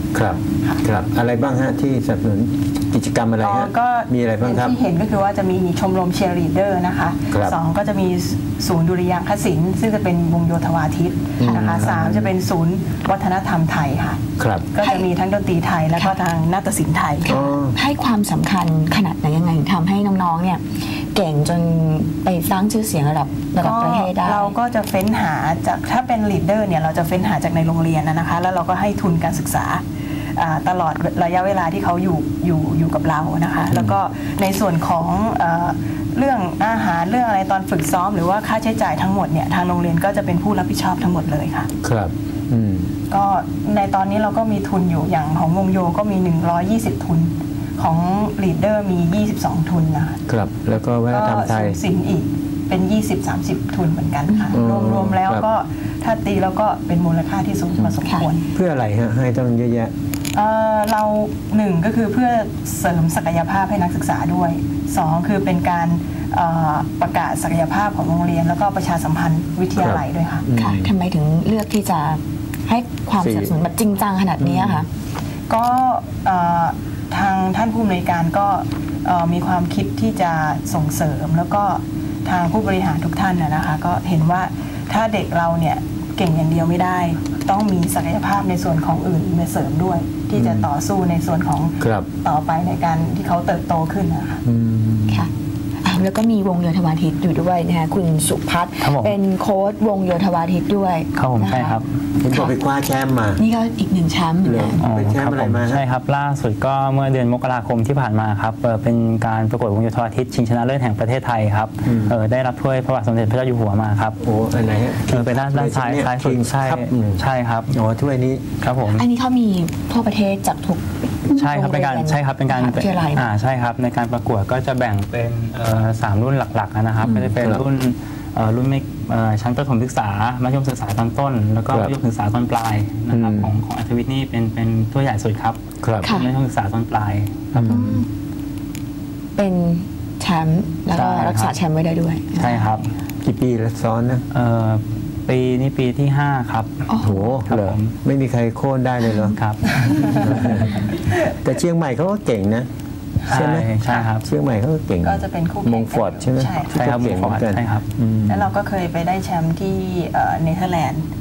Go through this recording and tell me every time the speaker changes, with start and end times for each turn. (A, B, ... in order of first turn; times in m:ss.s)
0:00.1-0:04.8 A
0:03.4-0:14.2 B
0:11.4-0:12.3 A
0:11.4-0:11.8 C
0:14.4-0:14.7 A
0:14.7-0:17.3 B
0:14.8-0:15.1 C
0:17.3-0:24.5 C
0:17.3-0:17.7 A
0:23.6-0:29.8 B
0:30.4-0:41.7 B
0:41.8-0:42.9 A
0:43.1-0:50.2 B
0:50.3-0:51.8 A
0:51.1-0:58.5 B
0:54.3-0:54.5 C
0:54.5-0:55.4 A
0:58.5-0:59.9 A
1:00.3-1:10.4 B
1:09.8-1:10.9 A
1:10.6-1:14.9 C
1:13.2-1:13.5 A
1:14.4-1:14.8 A
1:15.5-1:34.4 B
1:30.4-1:30.7 A
1:31.8-1:32.1 A
1:34.4-1:35.3 A
1:35.8-1:41.8 C
1:38.8-1:39.2 D
1:41.1-1:41.9 D
1:42.2-1:43.4 A
1:43.4-1:44.8 C
1:44.4-1:45.8 A
1:44.8-1:54.2 D
1:51.8-1:52.2 A
1:54.2-1:58.4 A
1:55.1-1:57.7 D
1:58.6-1:59.0 D
1:58.9-2:03.3 C
2:01.3-2:17.8 D
2:07.0-2:07.6 A
2:13.1-2:13.5 A
2:15.8-2:16.1 A
2:16.0-2:16.3 C
2:17.5-2:17.9 A
2:19.4-2:22.8 C
2:20.9-2:21.6 D
2:22.4-2:22.9 D
2:23.2-2:24.2 A
2:24.3-2:26.8 D
2:26.9-2:27.4 C
2:27.0-2:32.7 A
2:27.4-2:27.9 D
2:29.3-2:30.7 D
2:33.2-2:34.2 D
2:33.3-2:38.5 A
2:33.3-2:34.1 B
2:35.0-2:36.8 B
2:36.7-2:37.9 D
2:38.3-2:41.0 B